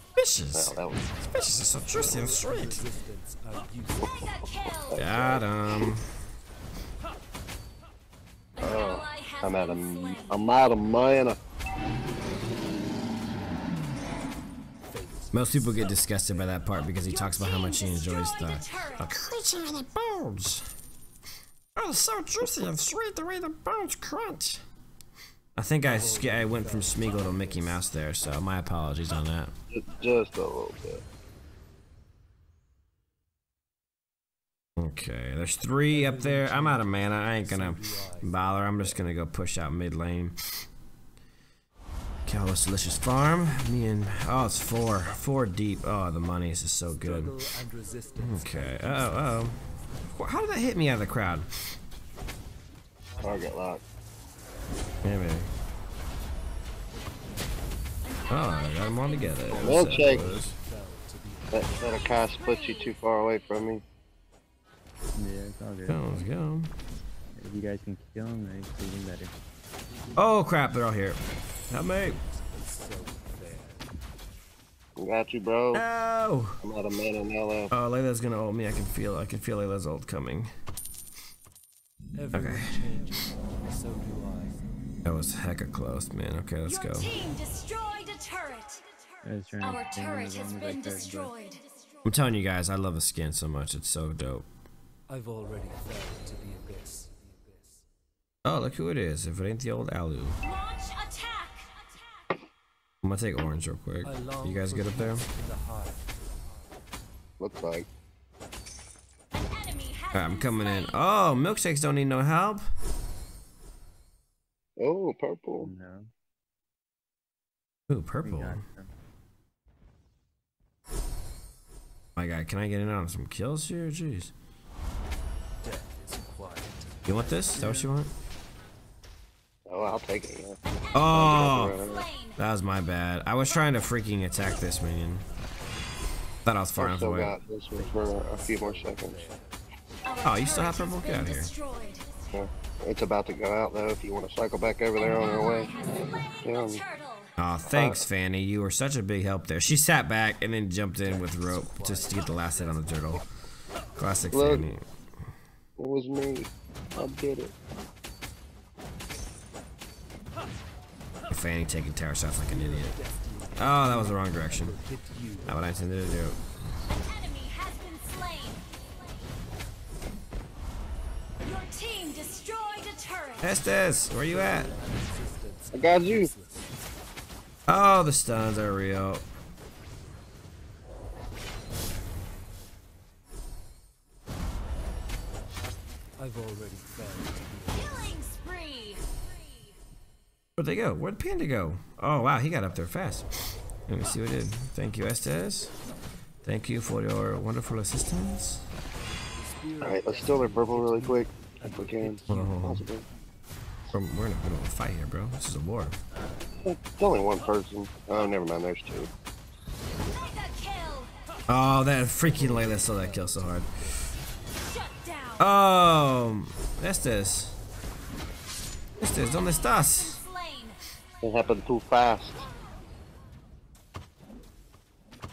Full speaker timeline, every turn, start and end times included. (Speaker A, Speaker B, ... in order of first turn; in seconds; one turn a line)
Speaker A: 0.2-2.8
Speaker B: 0.5-1.1
Speaker C: 2.1-4.0
Speaker B: 4.9-5.9
Speaker A: 5.0-6.2
Speaker B: 8.6-11.4
Speaker A: 15.3-20.7
Speaker A: 21.7-24.6
Speaker A: 25.6-29.5
Speaker C: 26.0-27.6
Speaker B: 29.7-31.0
Speaker A: 34.8-40.4
Speaker C: 36.0-36.7
Speaker C: 37.6-38.2
Speaker A: 42.2-47.4
Speaker C: 47.1-48.1
Speaker A: 48.1-51.5
Speaker B: 53.2-53.8
Speaker A: 55.0-55.5
Speaker A: 58.3-60.5
Speaker B: 59.5-60.3
Speaker C: 60.1-61.0
Speaker B: 61.5-63.8
Speaker D: 65.1-66.3
Speaker A: 65.9-66.7
Speaker D: 67.3-69.3
Speaker A: 70.1-72.2
Speaker C: 72.3-73.6
Speaker B: 75.0-75.8
Speaker A: 75.7-76.6
Speaker B: 76.6-77.7
Speaker A: 77.7-80.5
Speaker C: 82.2-83.1
Speaker A: 82.3-82.8
Speaker C: 83.8-84.5
Speaker A: 85.0-87.2
Speaker E: 87.8-88.6
Speaker D: 89.2-91.4
Speaker A: 92.0-94.5
Speaker C: 95.2-97.1
Speaker A: 98.4-100.4
Speaker A: 103.0-105.2
Speaker C: 104.1-106.0
Speaker B: 107.4-107.9
Speaker A: 110.1-112.7
Speaker B: 114.8-115.7
Speaker D: 115.6-116.1
Speaker A: 117.9-118.6
Speaker D: 118.2-118.9
Speaker A: 122.2-124.3
Speaker C: 125.7-127.8
Speaker A: 127.1-128.1
Speaker B: 129.7-130.6
Speaker A: 130.9-131.8
Speaker B: 131.1-132.1
Speaker A: 132.4-135.2
Speaker A: 136.4-137.3
Speaker B: 136.8-139.2
Speaker A: 140.2-141.5
Speaker B: 142.3-145.7
Speaker B: 146.4-146.8
Speaker A: 147.4-153.3
Speaker B: 147.7-148.0
Speaker C: 151.6-151.9
Speaker A: 153.9-154.9
Speaker B: 154.3-154.7
Speaker B: 155.8-157.5
Speaker A: 161.3-163.0
Speaker C: 162.9-164.0
Speaker A: 163.6-164.8
Speaker C: 164.8-165.4
Speaker A: 165.4-166.5
Speaker E: 167.8-168.5
Speaker E: 172.0-173.3
Speaker A: 173.4-174.7
Speaker C: 174.4-175.7
Speaker B: 175.7-176.3
Speaker A: 177.7-179.2
Speaker C: 186.3-187.6
Speaker E: 187.8-188.2
Speaker A: 190.6-195.8
Speaker A: 196.4-198.7
Speaker C: 199.4-200.5
Speaker B: 199.8-203.1
Speaker C: 201.8-202.4
Speaker A: 202.3-202.8
Speaker A: 203.9-206.0
Speaker B: 206.6-209.1
Speaker A: 211.5-213.8
Speaker C: 212.7-213.2
Speaker A: 215.4-217.6
Speaker A: 219.0-220.2
Speaker B: 221.2-222.4